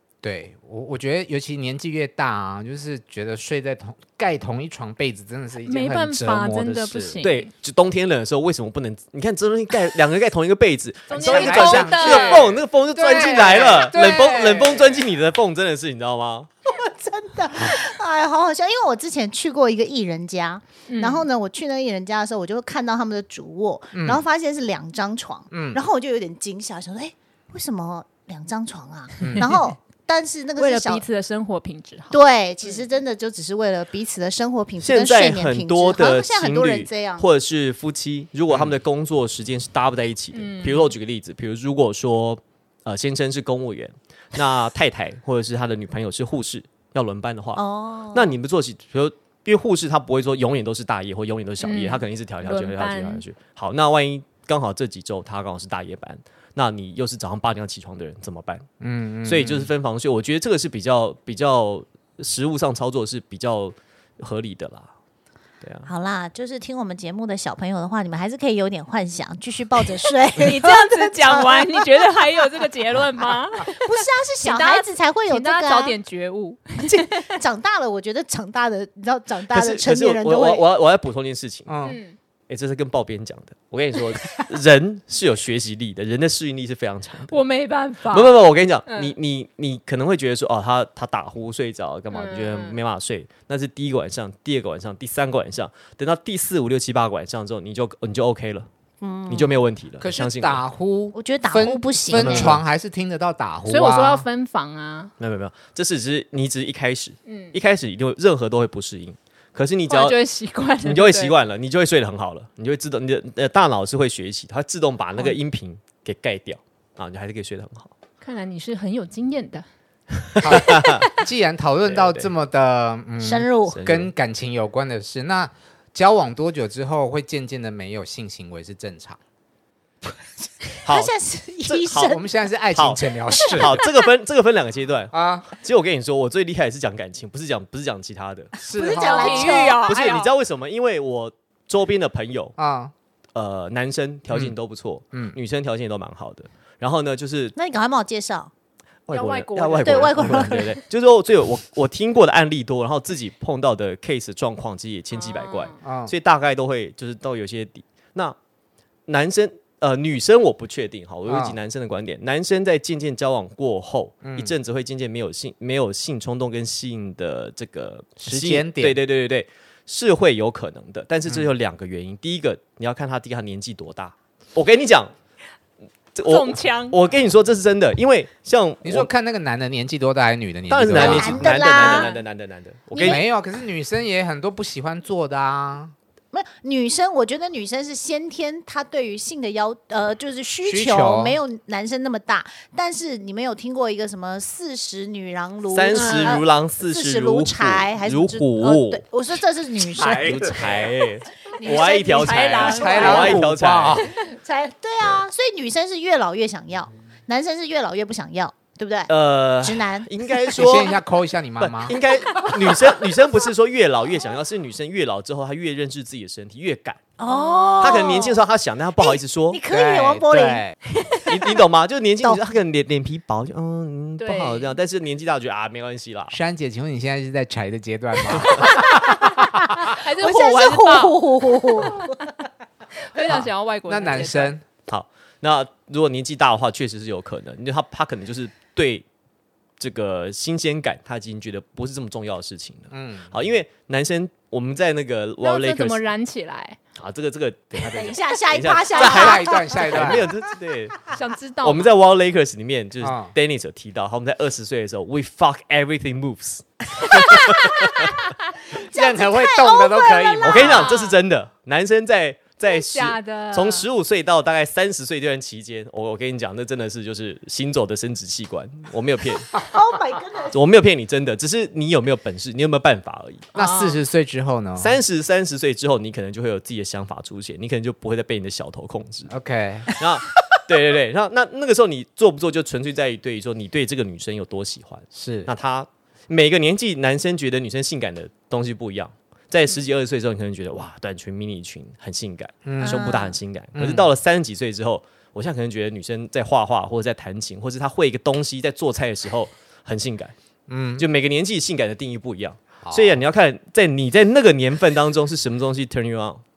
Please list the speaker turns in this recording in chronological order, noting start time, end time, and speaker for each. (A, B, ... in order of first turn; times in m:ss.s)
0:00.2-0:07.1 A
0:05.6-0:07.5 B
0:07.1-0:16.5 C
0:11.1-0:12.6 B
0:11.2-0:14.9 A
0:13.1-0:14.5 B
0:16.6-0:31.0 D
0:20.9-0:21.3 B
0:23.9-0:24.2 A
0:25.5-0:25.8 A
0:29.2-0:29.5 A
0:30.6-0:32.8 B
0:32.1-0:37.2 D
0:34.8-0:47.6 C
0:40.3-0:40.9 B
0:47.6-0:48.3 D
0:48.1-0:58.6 C
0:51.6-0:53.2 B
0:58.8-0:59.7 A
0:59.2-1:04.9 C
1:05.6-1:05.9 C
1:05.8-1:11.8 D
1:10.4-1:17.3 B
1:13.7-1:16.0 D
1:16.8-1:20.6 D
1:19.5-1:21.9 C
1:21.6-1:22.0 A
1:21.8-1:22.2 B
1:22.5-1:27.4 C
1:27.3-1:28.3 B
1:28.1-1:38.7 C
1:28.9-1:29.2 B
1:32.1-1:32.8 B
1:39.0-1:39.6 D
1:39.3-1:40.6 C
1:40.0-1:44.3 A
1:41.1-1:42.6 D
1:42.1-1:42.6 C
1:43.7-1:45.1 B
1:45.2-1:50.2 C
1:47.3-1:47.6 B
1:49.9-1:51.4 B
1:50.8-1:57.9 C
1:58.2-1:59.6 B
2:00.4-2:01.1 C
2:00.4-2:09.2 A
2:01.8-2:02.3 C
2:03.2-2:03.8 D
2:03.7-2:04.1 C
2:10.8-2:12.2 D
2:10.8-2:11.1 C
2:11.6-2:12.2 C
2:12.0-2:13.8 A
2:12.7-2:13.0 C
2:13.5-2:18.5 C
2:15.1-2:15.5 A
2:18.6-2:19.6 A
2:18.7-2:19.9 D
2:18.7-2:20.3 B
2:19.6-2:22.6 C
2:22.6-2:22.9 A
2:23.3-2:27.5 C
2:27.5-2:28.5 D
2:29.1-2:38.4 C
2:29.1-2:30.4 B
2:29.8-2:30.7 D
2:35.1-2:35.7 B
2:35.8-2:36.1 A
2:39.1-2:55.1 C
2:41.3-2:41.6 A
2:44.2-2:44.5 A
2:48.2-2:49.0 A
2:56.1-2:59.1 C
2:56.3-2:57.0 B
2:58.8-3:01.5 A
3:00.7-3:03.2 C
3:00.9-3:02.1 D
3:01.4-3:02.2 B
3:02.9-3:03.2 D
3:03.0-3:05.9 A
3:06.3-3:20.5 D
3:10.6-3:11.4 A
3:15.7-3:19.0 C
3:15.9-3:16.4 B
3:20.0-3:20.8 A
3:20.2-3:24.0 C
3:21.6-3:23.1 D
3:21.6-3:23.4 B
3:22.6-3:24.1 A
3:24.2-3:30.5 D
3:29.1-3:30.9 C
3:30.5-3:32.0 A
3:31.6-3:37.0 C
3:37.2-3:38.4 D
3:37.2-3:38.2 B
3:37.8-3:39.6 C
3:39.0-3:40.6 D
3:39.7-3:40.8 A
3:41.3-3:46.4 C
3:44.2-3:44.7 B
3:46.3-3:49.8 A
3:49.6-3:52.2 D
3:49.8-3:52.0 B
3:53.1-3:54.5 B
3:53.2-3:54.6 A
3:54.9-3:59.0 C
3:59.8-4:06.0 C
4:02.9-4:03.4 A
4:05.4-4:06.8 B
4:07.0-4:18.1 C
4:07.9-4:10.1 D
4:08.9-4:10.3 A
4:11.1-4:11.9 B
4:13.0-4:13.3 A
4:17.0-4:18.3 B
4:18.7-4:20.9 D
4:18.9-4:20.7 A
4:20.4-4:29.6 C
4:20.6-4:21.2 B
4:22.7-4:23.8 B
4:29.7-4:30.5 D
4:30.5-4:33.4 C
4:33.5-4:34.0 B
4:33.5-4:35.0 A
4:34.8-4:39.3 C
4:39.3-4:39.9 A
4:39.9-5:00.3 C
4:45.1-4:45.5 A
4:52.6-4:53.1 A
4:52.8-4:53.4 D
4:53.7-4:54.1 A
5:00.7-5:01.0 A
5:01.0-5:06.4 C
5:02.8-5:03.2 A